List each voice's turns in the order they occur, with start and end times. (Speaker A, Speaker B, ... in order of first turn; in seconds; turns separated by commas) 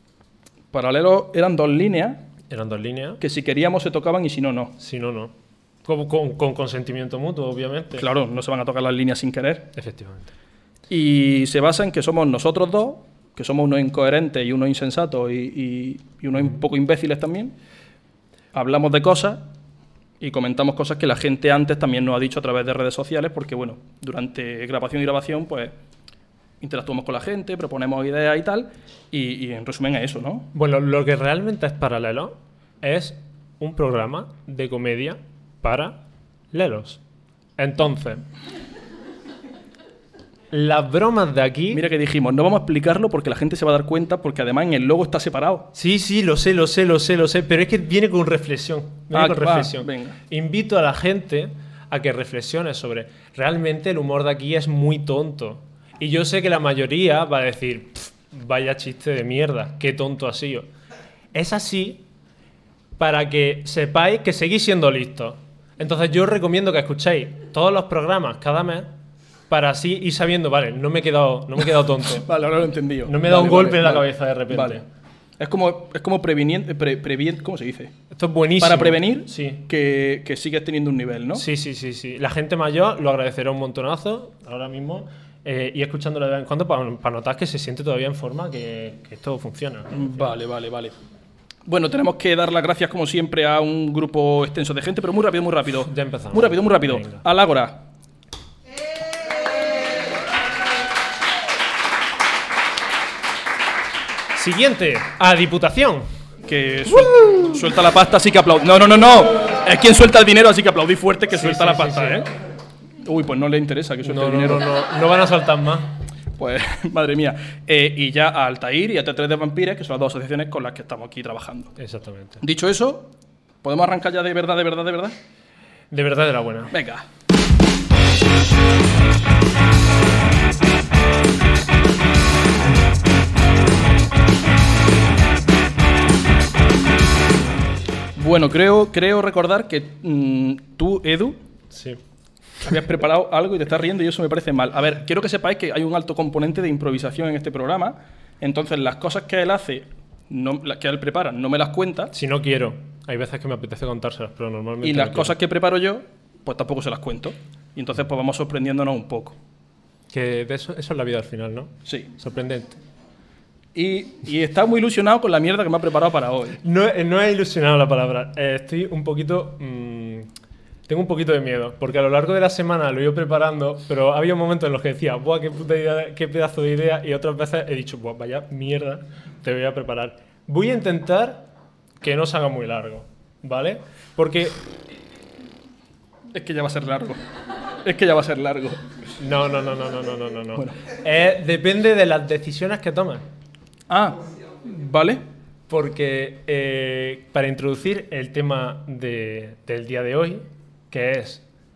Speaker A: 0.7-2.2, Speaker B: 2.5-3.2, Speaker A: 3.2-4.7, Speaker B: 4.8-5.3, Speaker B: 5.8-8.1, Speaker A: 8.0-9.7, Speaker B: 9.7-10.3, Speaker A: 10.9-17.5, Speaker A: 18.5-19.5, Speaker A: 20.2-25.7, Speaker A: 26.6-30.5, Speaker B: 30.5-36.0, Speaker B: 36.5-37.0, Speaker B: 37.6-38.2, Speaker B: 40.5-41.8, Speaker A: 41.7-45.7, Speaker B: 45.7-60.7, Speaker A: 49.1-50.2, Speaker B: 61.3-62.0, Speaker B: 63.0-68.9, Speaker B: 69.5-72.3, Speaker A: 72.0-74.8, Speaker B: 73.0-74.8, Speaker A: 75.4-77.9, Speaker B: 78.1-79.6, Speaker A: 78.6-81.5, Speaker B: 81.3-90.3, Speaker A: 89.9-91.0, Speaker A: 91.7-97.8, Speaker B: 95.8-97.2, Speaker B: 104.3-106.0, Speaker A: 106.4-112.3, Speaker B: 111.3-112.2, Speaker A: 113.0-114.7, Speaker B: 114.0-115.9, Speaker A: 116.4-121.8, Speaker B: 121.8-122.4, Speaker A: 122.4-125.2, Speaker B: 125.9-126.7, Speaker A: 126.7-127.0, Speaker A: 138.2-141.4, Speaker B: 141.7-142.0, Speaker A: 142.6-152.1, Speaker B: 152.1-155.3, Speaker A: 154.8-159.4, Speaker B: 160.1-162.8, Speaker A: 163.7-166.6, Speaker B: 166.6-170.3, Speaker B: 170.9-181.5, Speaker B: 182.0-184.6, Speaker A: 186.3-187.2, Speaker A: 187.8-188.9, Speaker B: 189.2-193.2, Speaker A: 193.9-195.2, Speaker B: 195.7-201.4